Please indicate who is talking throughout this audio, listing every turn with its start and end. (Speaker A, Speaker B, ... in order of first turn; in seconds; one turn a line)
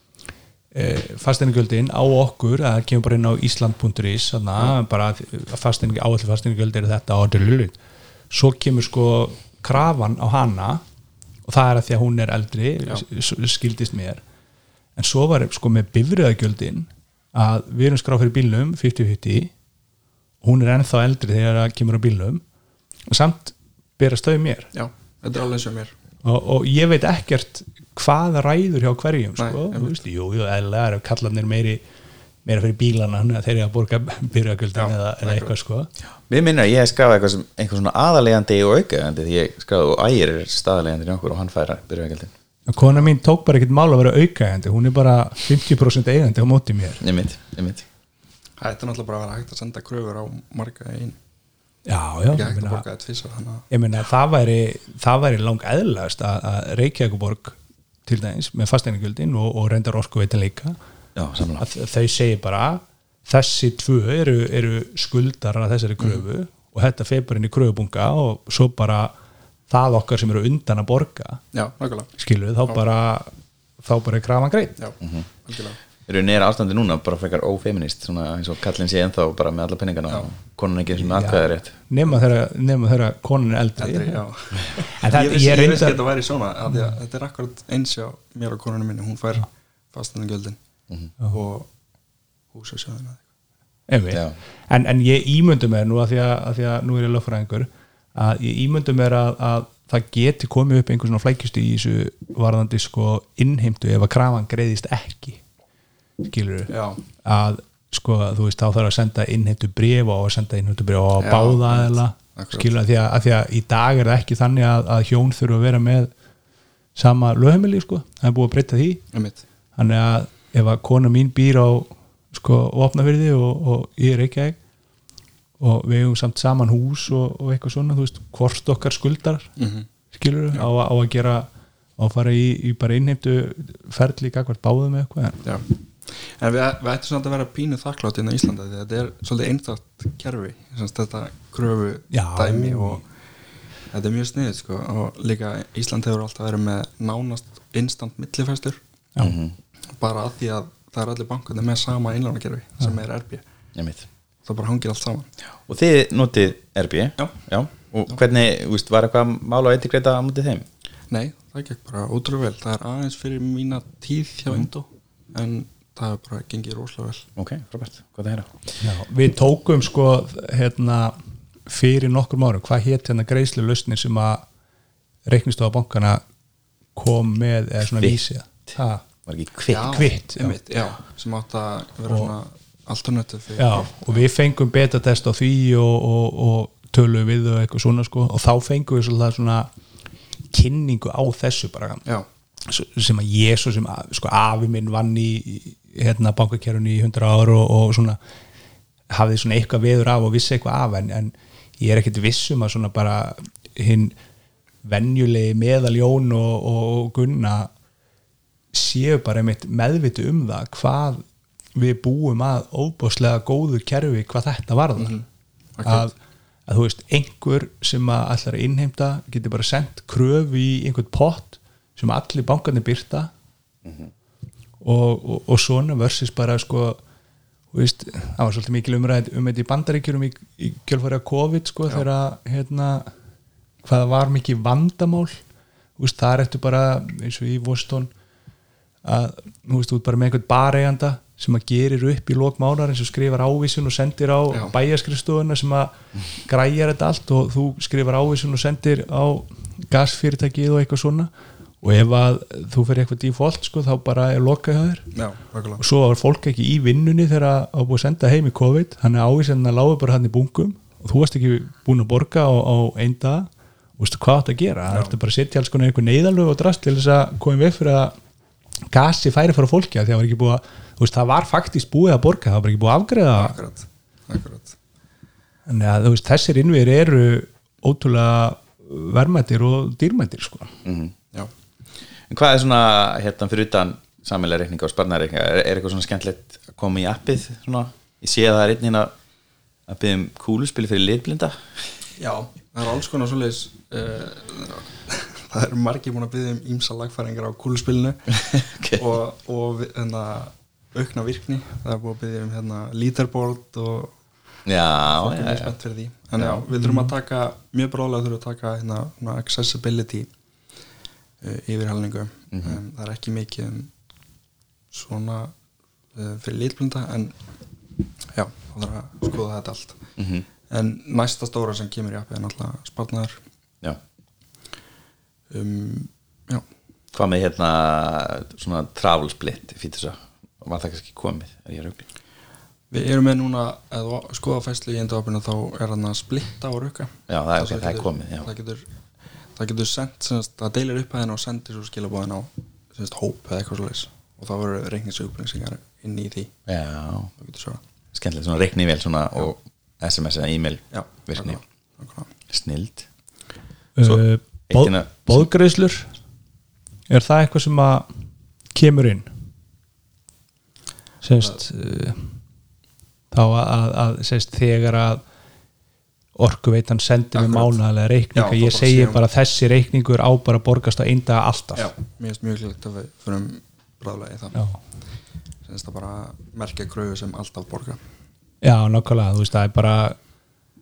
Speaker A: 0.7-7.8
Speaker A: 8.3-10.8
Speaker A: 11.5-14.2
Speaker A: 15.0-19.5
Speaker A: 20.4-22.4
Speaker A: 23.1-24.7
Speaker B: 24.7-25.9
Speaker A: 26.2-31.8
Speaker B: 29.4-30.0
Speaker A: 32.5-35.9
Speaker B: 34.8-35.5
Speaker C: 36.3-42.3
Speaker A: 42.7-47.0
Speaker B: 42.8-43.1
Speaker C: 47.0-47.9
Speaker B: 48.6-51.2
Speaker A: 51.9-52.8
Speaker B: 52.3-53.7
Speaker A: 53.7-60.8
Speaker C: 61.1-61.7
Speaker A: 61.6-69.1
Speaker B: 66.0-66.2
Speaker A: 69.7-71.4
Speaker B: 71.5-72.1
Speaker A: 72.2-74.8
Speaker B: 74.8-75.8
Speaker C: 75.0-75.3
Speaker C: 76.0-81.7
Speaker A: 81.0-84.2
Speaker B: 83.8-90.6
Speaker A: 84.8-86.0
Speaker A: 86.7-87.0
Speaker B: 91.3-91.7
Speaker B: 92.5-93.2
Speaker A: 93.9-105.4
Speaker C: 94.1-94.4
Speaker A: 106.2-116.1
Speaker B: 106.7-107.0
Speaker B: 111.2-112.7
Speaker A: 117.0-119.0
Speaker B: 119.1-119.4
Speaker A: 119.8-124.6
Speaker A: 125.6-129.5
Speaker B: 129.6-129.9
Speaker A: 130.1-135.4
Speaker B: 135.4-143.0
Speaker A: 142.1-143.0
Speaker B: 143.9-148.8
Speaker C: 149.2-149.6
Speaker B: 150.0-153.4
Speaker C: 153.8-154.1
Speaker B: 154.4-155.3
Speaker C: 155.7-160.7
Speaker B: 161.1-167.3
Speaker C: 167.4-168.6
Speaker A: 168.8-171.2
Speaker A: 171.7-174.4
Speaker A: 175.3-176.2
Speaker A: 176.9-179.1
Speaker C: 179.3-180.1
Speaker B: 179.7-184.2
Speaker A: 179.9-180.6
Speaker A: 182.1-182.3
Speaker A: 183.6-189.7
Speaker A: 190.5-192.0
Speaker A: 192.7-198.2
Speaker A: 199.1-204.2
Speaker A: 204.8-207.7
Speaker A: 208.7-211.2
Speaker A: 211.8-215.2
Speaker B: 215.0-216.1
Speaker A: 215.8-216.1
Speaker A: 216.7-223.3
Speaker C: 223.8-224.1
Speaker A: 224.8-227.0
Speaker A: 227.7-233.1
Speaker A: 233.8-235.4
Speaker A: 236.0-238.1
Speaker A: 239.0-251.3
Speaker A: 251.8-255.1
Speaker B: 255.1-255.8
Speaker A: 255.8-268.1
Speaker B: 264.9-265.1
Speaker A: 268.9-273.6
Speaker B: 273.4-274.8
Speaker A: 275.7-280.8
Speaker C: 280.9-281.1
Speaker C: 282.3-289.1
Speaker C: 289.9-292.0
Speaker B: 292.2-304.1
Speaker C: 298.5-299.1
Speaker C: 304.7-305.7
Speaker B: 305.1-310.3
Speaker C: 306.4-306.6
Speaker A: 306.8-307.1
Speaker B: 311.4-313.9
Speaker C: 312.5-312.8
Speaker B: 314.9-315.5
Speaker B: 316.1-317.4
Speaker B: 318.3-320.0
Speaker C: 320.2-320.5
Speaker B: 320.7-323.4
Speaker B: 325.5-326.6
Speaker C: 327.1-332.0
Speaker B: 332.9-338.9
Speaker C: 337.3-338.5
Speaker B: 339.6-346.5
Speaker C: 346.7-347.3
Speaker B: 347.4-347.8
Speaker C: 348.1-351.6
Speaker B: 350.9-352.3
Speaker C: 352.5-353.1
Speaker A: 354.0-356.1
Speaker C: 354.0-355.4
Speaker A: 357.1-358.1
Speaker A: 358.8-359.3
Speaker A: 361.2-362.4
Speaker A: 363.3-365.2
Speaker A: 366.4-371.9
Speaker B: 367.4-367.8
Speaker B: 368.4-369.2
Speaker B: 371.8-374.6
Speaker B: 375.6-378.0
Speaker A: 378.6-380.2